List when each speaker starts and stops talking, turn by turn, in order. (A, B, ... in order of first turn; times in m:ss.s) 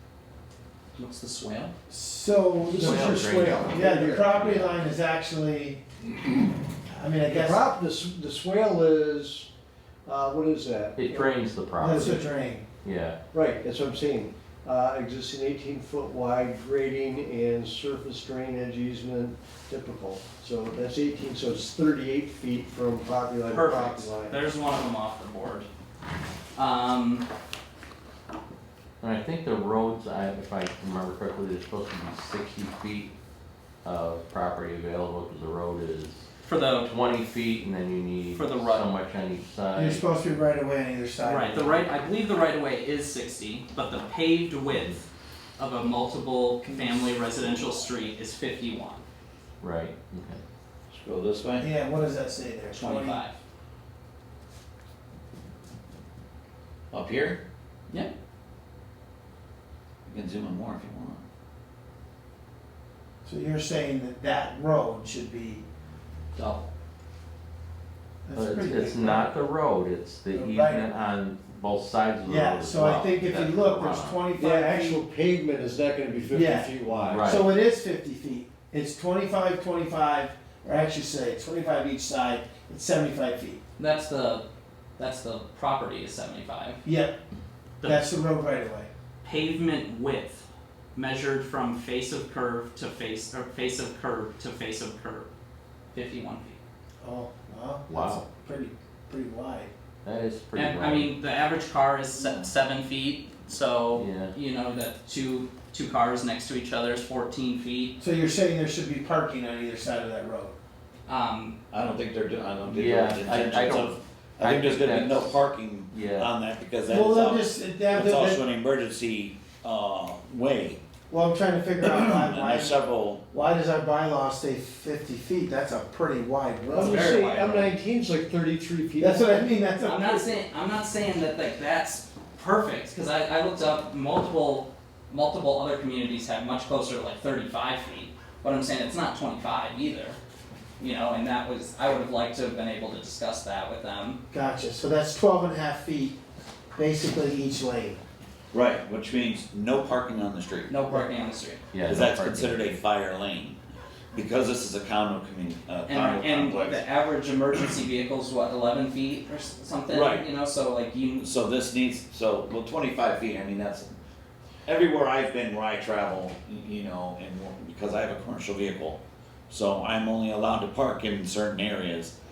0:01.0-0:01.7 A
0:01.9-0:05.8 B
0:02.7-0:04.3 C
0:02.8-0:04.8 D
0:06.9-0:07.6 B
0:07.3-0:09.5 C
0:10.0-0:11.3 C
0:11.0-0:13.2 D
0:11.8-0:12.7 B
0:13.3-0:24.4 C
0:23.5-0:25.7 A
0:26.6-0:27.2 A
0:29.0-0:33.1 D
0:33.8-0:36.2 D
0:36.4-0:37.0 A
0:36.8-0:40.0 D
0:38.3-0:38.9 A
0:39.8-0:41.8 B
0:41.2-0:45.0 A
0:44.7-0:45.0 D
0:45.6-0:49.0 A
0:46.7-0:47.1 B
0:49.6-0:50.4 D
0:50.9-0:51.7 E
0:51.6-0:53.2 B
0:52.7-0:53.4 A
0:56.9-0:57.4 E
1:00.1-1:01.2 E
1:03.2-1:05.6 B
1:06.4-1:06.6 A
1:08.3-1:09.3 B
1:08.3-1:14.2 D
1:10.3-1:10.9 B
1:12.3-1:15.0 B
1:14.4-1:17.3 C
1:16.3-1:23.6 B
1:17.0-1:17.5 D
1:23.8-1:24.4 A
1:25.0-1:26.8 A
1:26.8-1:27.2 B
1:27.8-1:28.1 A
1:27.8-1:28.9 B
1:29.2-1:35.3 A
1:35.9-1:36.6 A
1:37.0-1:39.7 B
1:37.9-1:38.2 D
1:40.0-1:41.1 D
1:40.5-1:48.0 A
1:43.9-1:44.3 D
1:48.0-1:50.6 B
1:51.1-1:51.6 A
1:51.7-2:00.8 E
1:52.6-1:55.4 D
1:55.9-1:56.3 D
1:56.9-1:58.4 B
2:01.1-2:02.8 B
2:01.8-2:03.2 E
2:03.3-2:07.0 B
2:06.7-2:09.6 C
2:06.8-2:07.8 A
2:09.0-2:10.4 B
2:09.8-2:20.2 A
2:20.8-2:24.2 A
2:24.3-2:26.2 B
2:26.8-2:28.0 B
2:28.5-2:30.7 E
2:30.7-2:31.6 A
2:31.7-2:32.7 D
2:31.8-2:33.6 E
2:34.1-2:36.8 E
2:35.9-2:41.3 A
2:39.9-2:40.3 E
2:41.2-2:43.9 E
2:44.7-2:52.1 E